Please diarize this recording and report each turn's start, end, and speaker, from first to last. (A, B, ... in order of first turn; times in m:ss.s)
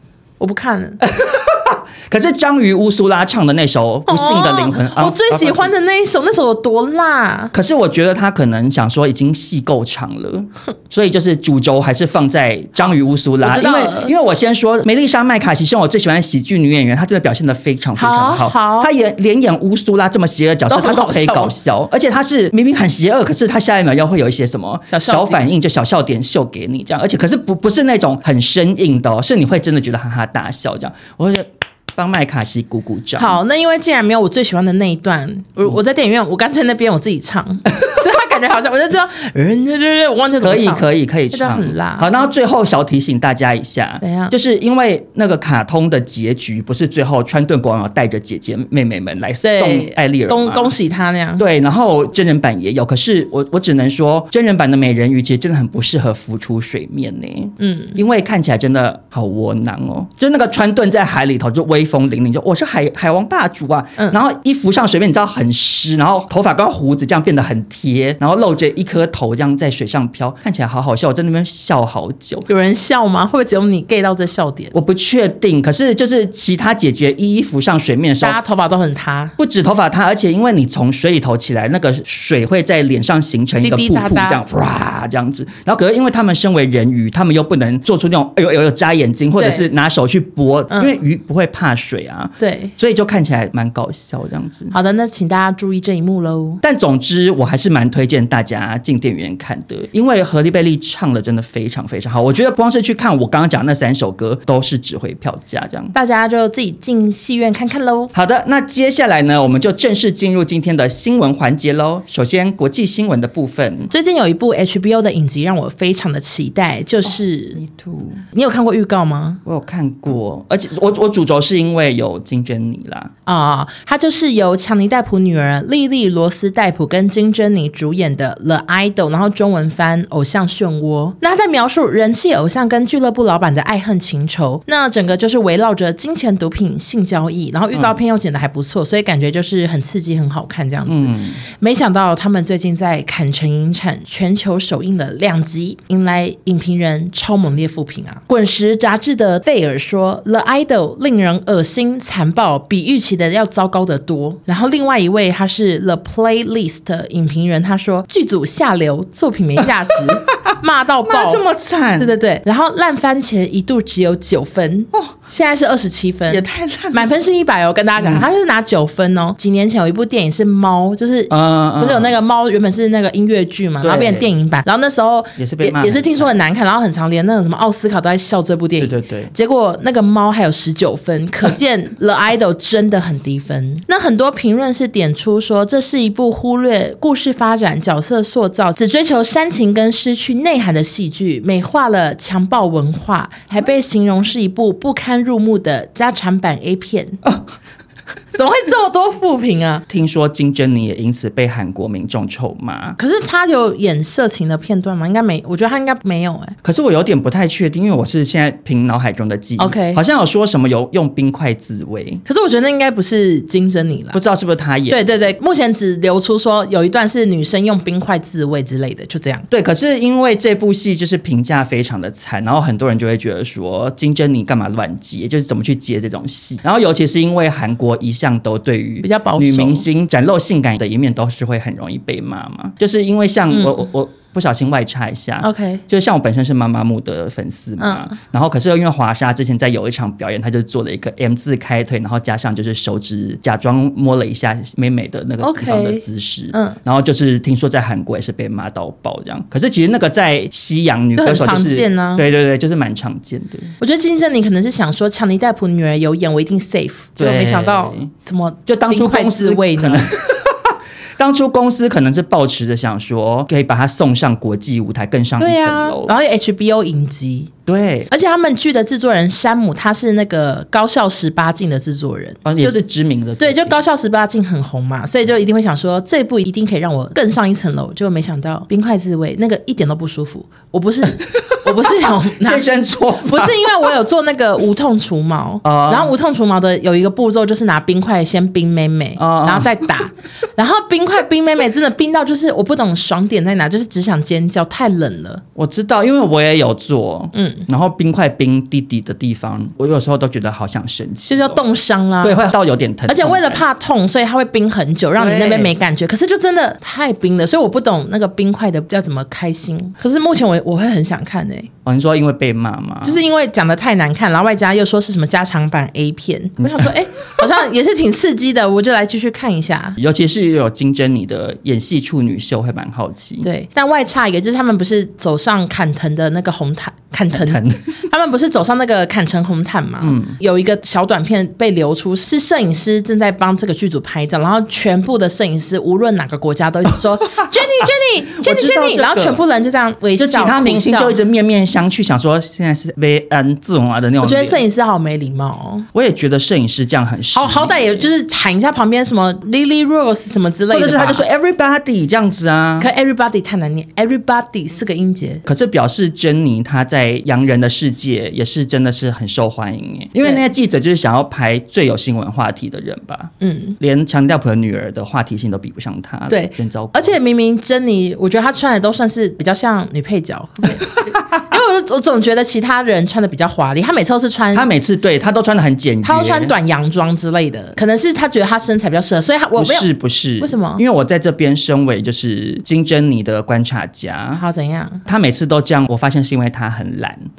0:00.4-0:01.0 A
0:01.0-0:05.7 B
0:04.1-0:07.5 A
0:07.5-0:33.4 B
0:13.4-0:14.1 A
0:18.0-0:18.9 A
0:20.7-0:21.5 A
0:24.9-0:25.4 A
0:33.2-0:42.1 A
0:40.4-0:50.7 B
0:44.0-0:44.3 A
0:49.4-0:51.4 A
0:51.4-1:12.4 B
0:57.6-0:58.0 A
1:12.5-1:14.7 A
1:14.7-1:18.4 B
1:18.2-1:19.3 A
1:19.4-1:34.7 B
1:23.6-1:24.4 A
1:29.4-1:29.7 A
1:32.4-1:32.7 A
1:34.7-1:36.6 A
1:36.6-1:45.9 B
1:45.9-1:48.1 A
1:48.1-1:53.9 B
1:53.9-1:57.6 A
1:57.6-1:58.2 B
1:58.3-1:59.4 A
1:59.4-2:03.1 B
2:03.2-2:41.4 A
2:17.7-2:18.0 B
2:20.9-2:21.4 B
2:40.0-2:40.5 B
2:41.1-2:42.1 B
2:42.0-3:17.2 A
2:46.3-2:47.1 B
2:48.0-2:48.3 B
2:51.3-2:52.1 B
2:53.8-2:54.3 B
2:55.4-2:56.3 B
2:58.8-2:59.3 B
3:18.3-3:19.8 A
3:19.9-3:23.0 B
3:23.0-3:26.6 A
3:26.6-3:32.2 B
3:29.6-3:30.0 A
3:32.2-3:34.2 A
3:34.1-3:35.2 B
3:34.9-3:39.4 A
3:39.5-4:13.7 B
3:49.0-3:49.8 A
3:53.5-3:53.8 A
3:55.4-3:55.8 A
3:57.8-3:58.1 A
4:05.4-4:06.8 A
4:11.2-4:12.2 A
4:13.8-4:20.1 A
4:17.2-4:18.1 B
4:18.7-4:26.1 B
4:25.4-4:27.5 A
4:27.6-4:28.1 B
4:28.1-4:32.8 A
4:32.4-4:33.8 B
4:33.4-4:42.6 A
4:41.3-4:43.7 B
4:43.2-4:55.4 A
4:45.6-4:46.1 B
4:49.2-4:49.7 B
4:55.6-5:01.6 B
4:57.3-4:57.6 A
5:01.3-5:02.5 A
5:02.2-5:03.6 B
5:03.1-5:11.7 A
5:05.2-5:05.7 B
5:11.8-5:13.2 B
5:13.0-5:20.0 A
5:16.6-5:16.9 B
5:20.0-5:23.4 B
5:23.4-5:41.2 A
5:27.3-5:27.9 B
5:30.0-5:30.4 B
5:37.4-5:39.4 B
5:40.2-5:44.6 B
5:44.2-5:45.9 A
5:45.9-5:48.1 B
5:47.3-5:51.2 A
5:50.7-5:52.9 B
5:52.8-5:55.4 A
5:55.4-6:07.2 B
6:03.4-6:03.8 A
6:06.3-6:14.7 A
6:14.5-6:16.5 B
6:16.0-6:19.9 A
6:19.6-6:24.4 B
6:20.4-6:20.8 A
6:24.3-6:25.0 A
6:25.0-6:27.2 B